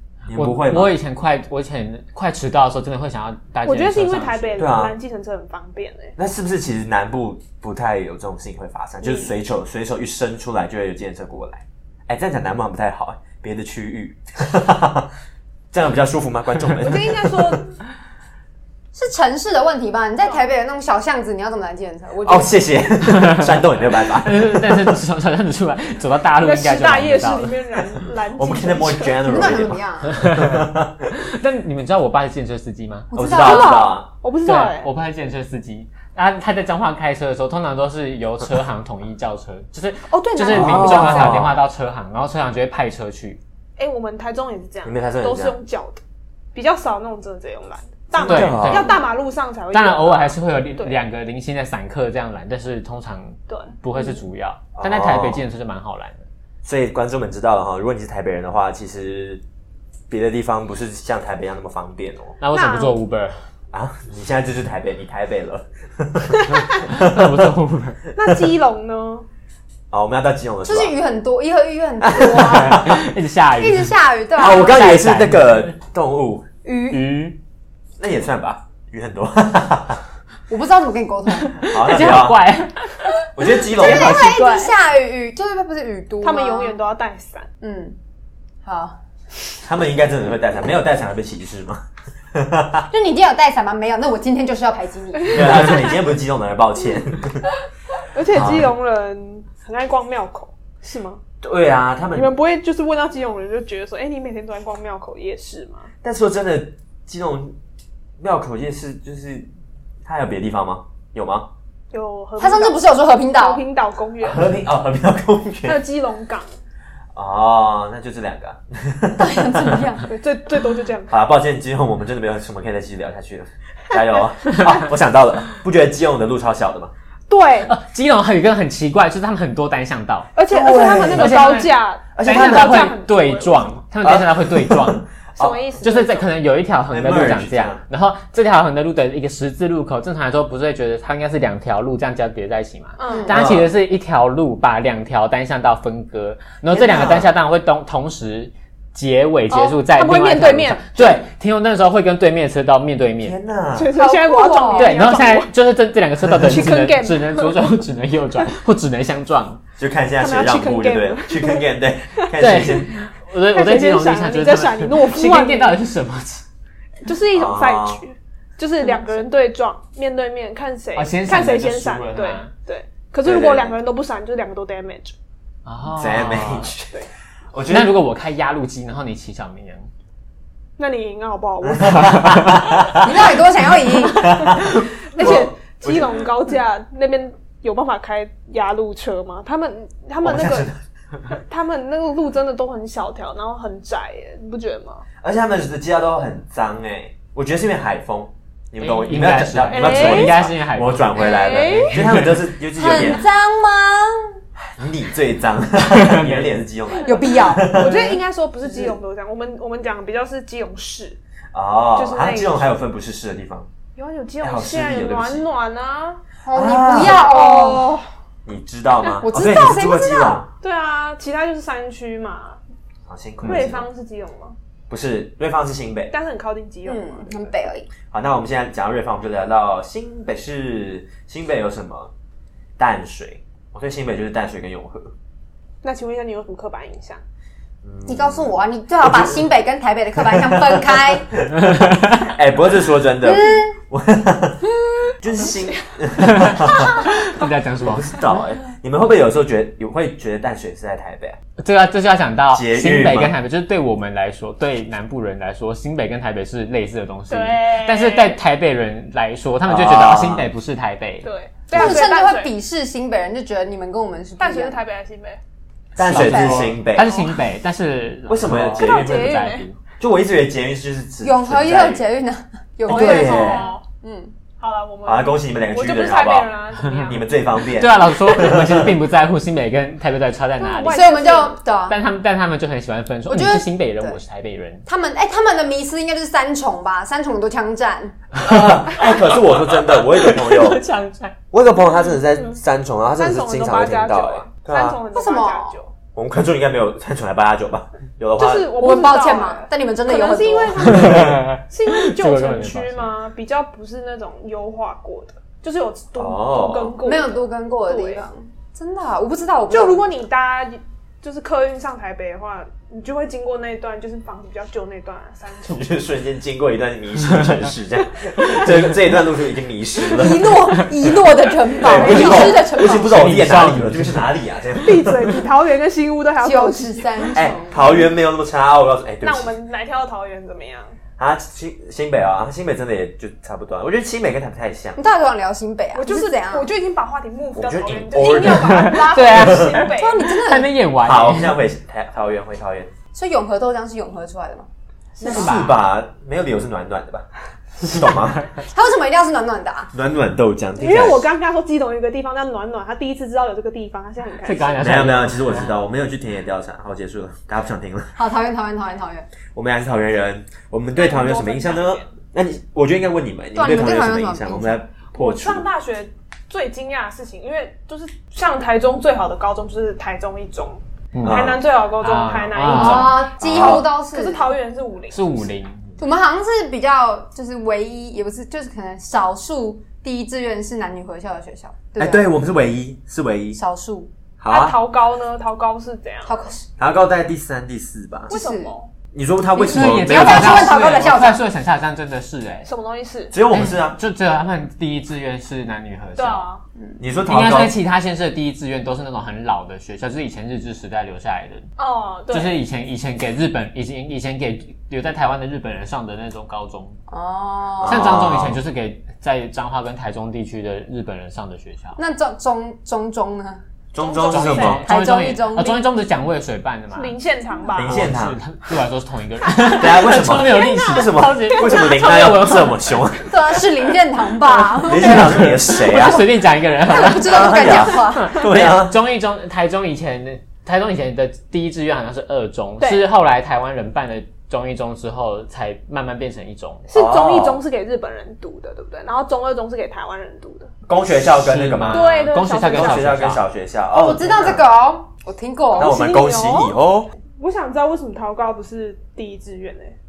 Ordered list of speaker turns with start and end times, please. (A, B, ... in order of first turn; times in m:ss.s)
0:00.3-0:01.0 A
0:00.3-0:04.6 B
0:03.6-0:06.2 C
0:04.6-0:05.0 A
0:06.2-0:15.1 A
0:09.0-0:09.3 C
0:15.7-0:17.6 A
0:16.8-0:17.8 C
0:18.9-0:22.5 D
0:22.2-0:25.0 A
0:23.1-0:23.5 B
0:24.1-0:27.6 B
0:26.4-0:29.4 C
0:28.4-0:31.1 A
0:29.2-0:30.2 D
0:30.0-0:33.1 B
0:33.1-0:34.0 D
0:33.1-0:34.1 A
0:33.4-0:34.9 C
0:34.4-0:43.4 B
0:40.1-0:41.4 C
0:40.5-0:41.6 A
0:43.8-0:46.0 C
0:44.8-0:45.6 A
0:46.5-0:51.0 C
0:48.2-0:49.0 A
0:48.2-0:49.0 B
0:49.7-0:56.3 B
0:53.5-0:54.2 C
0:54.8-0:55.4 A
0:56.6-0:59.4 A
1:00.1-1:02.4 A
1:02.4-1:03.4 B
1:02.5-1:03.0 C
1:03.7-1:07.5 A
1:06.9-1:08.0 B
1:08.2-1:09.3 C
1:09.9-1:11.0 A
1:10.6-1:12.9 D
1:12.0-1:13.0 A
1:12.3-1:15.7 B
1:13.6-1:14.8 D
1:14.4-1:16.5 A
1:16.6-1:17.1 D
1:16.9-1:17.4 B
1:18.0-1:20.0 A
1:20.5-1:21.6 D
1:21.4-1:23.1 B
1:21.6-1:22.4 A
1:23.4-1:24.3 A
1:23.7-1:26.8 D
1:23.8-1:24.7 B
1:24.1-1:24.4 C
1:26.2-1:27.5 C
1:27.6-1:28.0 D
1:28.6-1:29.0 D
1:29.6-1:32.9 A
1:32.9-1:35.8 D
1:35.3-1:37.5 A
1:38.1-1:41.2 C
1:38.3-1:38.7 A
1:41.4-1:42.3 A
1:42.1-1:45.9 C
1:46.0-1:47.6 A
1:48.2-1:49.5 A
1:50.0-1:51.5 A
1:51.9-1:54.5 C
1:52.4-1:53.6 D
1:54.2-1:55.8 A
1:55.6-1:56.5 C
1:57.1-1:59.9 A
1:59.2-2:00.1 D
2:00.1-2:01.2 C
2:01.1-2:06.9 A
2:04.5-2:04.8 B
2:07.3-2:07.7 C
2:07.7-2:10.3 B
2:10.4-2:13.8 C
2:10.5-2:11.6 A
2:10.9-2:15.0 B
2:12.2-2:13.0 A
2:14.0-2:15.6 A
2:15.4-2:16.3 C
2:15.8-2:33.4 B
2:16.9-2:17.8 A
2:23.0-2:23.4 C
2:23.3-2:23.7 A
2:26.8-2:27.3 A
2:26.9-2:27.2 C
2:29.5-2:31.2 C
2:33.2-2:33.9 A
2:33.7-2:35.5 C
2:33.9-2:35.0 D
2:34.7-2:39.6 B
2:36.3-2:36.7 A
2:36.4-2:37.7 C
2:39.8-2:43.0 A
2:40.2-2:41.6 C
2:42.4-2:46.4 B
2:43.5-2:45.8 C
2:47.0-2:55.2 C
2:47.3-2:48.0 A
2:51.0-2:52.5 B
2:53.2-2:53.8 A
2:55.6-2:56.7 B
2:55.9-2:58.0 A
2:57.7-2:59.9 B
3:00.8-3:02.6 C
3:01.6-3:03.3 A
3:02.9-3:04.5 D
3:04.0-3:06.3 A
3:04.2-3:10.7 C
3:10.2-3:10.8 A
3:11.3-3:15.0 C
3:15.2-3:23.2 A
3:18.8-3:22.4 B
3:19.7-3:20.4 C
3:21.2-3:22.0 C
3:22.8-3:24.3 D
3:24.6-3:28.2 A
3:25.8-3:26.6 B
3:27.0-3:31.2 C
3:27.0-3:27.8 D
3:31.5-3:33.7 A
3:32.0-3:32.7 C
3:34.0-3:36.2 C
3:34.4-3:35.4 A
3:36.4-3:37.9 D
3:36.5-3:37.5 A
3:37.0-3:38.0 C
3:38.5-3:40.5 A
3:39.2-3:40.4 D
3:40.6-3:42.6 C
3:43.1-3:43.9 A
3:43.4-3:44.6 C
3:44.9-3:46.1 A
3:46.1-3:47.5 C
3:46.8-3:47.9 D
3:48.1-3:52.1 A
3:52.8-3:55.1 A
3:55.8-3:57.2 C
3:57.8-3:59.4 A
3:58.1-4:01.3 D
4:00.2-4:04.6 A
4:03.2-4:03.8 D
4:05.2-4:07.0 A
4:05.4-4:05.9 C
4:06.2-4:08.2 B
4:06.7-4:07.1 C
4:07.8-4:11.4 A
4:11.6-4:21.3 B
4:12.5-4:13.4 A
4:17.3-4:18.4 C
4:19.7-4:20.5 A
4:21.2-4:22.5 C
4:21.7-4:24.8 D
4:24.4-4:25.4 C
4:26.0-4:27.2 A
4:26.0-4:29.8 B
4:26.0-4:26.7 D
4:27.0-4:27.3 C
4:28.3-4:29.5 A
4:28.8-4:29.6 C
4:30.0-4:32.0 A
4:31.2-4:34.3 D
4:32.9-4:33.7 A
4:32.9-4:33.8 C
4:34.6-4:37.3 C
4:35.0-4:36.5 A
4:37.0-4:38.9 A
4:37.6-4:41.1 B
4:40.6-4:41.6 C
4:40.9-4:42.0 D
4:41.9-4:44.8 B
4:43.3-4:44.2 D
4:44.9-4:48.2 D
4:48.4-4:50.8 A
4:50.0-4:51.4 B
4:51.5-4:55.0 A
4:53.2-4:55.9 C
4:55.1-4:55.8 D
4:56.2-4:58.8 A
4:58.4-5:08.2 C
4:58.8-5:00.9 D
5:00.8-5:03.1 B
5:00.9-5:01.5 A
5:06.2-5:07.0 A
5:07.0-5:10.0 D
5:09.7-5:15.9 C
5:15.6-5:20.8 A
5:20.1-5:23.1 D
5:21.8-5:25.2 A
5:21.8-5:24.3 B
5:24.8-5:27.3 C
5:26.4-5:28.0 D
5:27.3-5:29.6 A
5:29.2-5:31.0 C
5:31.2-5:35.0 A
5:35.0-5:36.7 D
5:36.0-5:40.2 C
5:37.6-5:39.9 A
5:38.4-5:41.6 B
5:39.9-5:40.7 D
5:41.0-5:42.9 A
5:43.1-5:44.7 D
5:45.2-5:45.6 C
5:45.2-5:47.3 A
5:45.2-5:45.7 B
5:47.8-5:48.4 A
5:48.7-5:49.9 D
5:49.9-5:51.3 A
5:50.8-5:54.9 C
5:54.4-5:55.7 B
5:54.8-5:58.1 A
5:58.2-5:59.3 D
5:59.5-6:05.7 A
6:00.9-6:02.1 C
6:03.6-6:04.8 D
6:05.2-6:15.5 C
6:11.1-6:13.2 B
6:11.2-6:11.6 A
6:12.7-6:14.5 D
6:13.4-6:13.9 A
6:15.1-6:16.0 B
6:16.0-6:22.3 D
6:22.0-6:23.6 A
6:23.6-6:24.1 D
6:24.4-6:24.8 A
6:24.5-6:26.5 C
6:26.3-6:26.6 D
6:26.8-6:28.3 A
6:28.3-6:28.7 D
6:28.3-6:28.9 C
6:29.1-6:31.1 A
6:29.6-6:32.7 B
6:29.6-6:31.4 D
6:32.6-6:33.4 C
6:33.3-6:34.0 A
6:33.5-6:36.5 B
6:36.2-6:36.6 C
6:37.0-6:37.8 A
6:37.3-6:41.7 B
6:41.8-6:42.6 C
6:42.3-6:47.0 B
6:47.1-6:48.1 D
6:47.8-6:48.6 A
6:47.9-6:52.0 B
6:52.0-6:53.6 D
6:53.9-6:54.8 A
6:54.0-6:54.8 C
6:54.3-6:57.2 B
6:54.7-6:55.9 D
6:56.9-6:58.0 C
6:57.7-6:58.4 A
6:57.8-7:03.0 B
6:59.7-7:03.3 A
7:00.6-7:01.8 C
7:03.3-7:06.2 D
7:04.7-7:16.9 B
7:04.8-7:06.3 A
7:06.8-7:08.4 D
7:07.1-7:09.0 A
7:12.8-7:13.1 C
7:16.9-7:20.7 C
7:16.9-7:17.6 A
7:20.9-7:22.1 A
7:21.3-7:23.4 B
7:21.9-7:23.1 C
7:22.7-7:24.6 A
7:23.9-7:26.0 D
7:25.7-7:26.8 C
7:25.8-7:27.1 A
7:27.4-7:30.0 C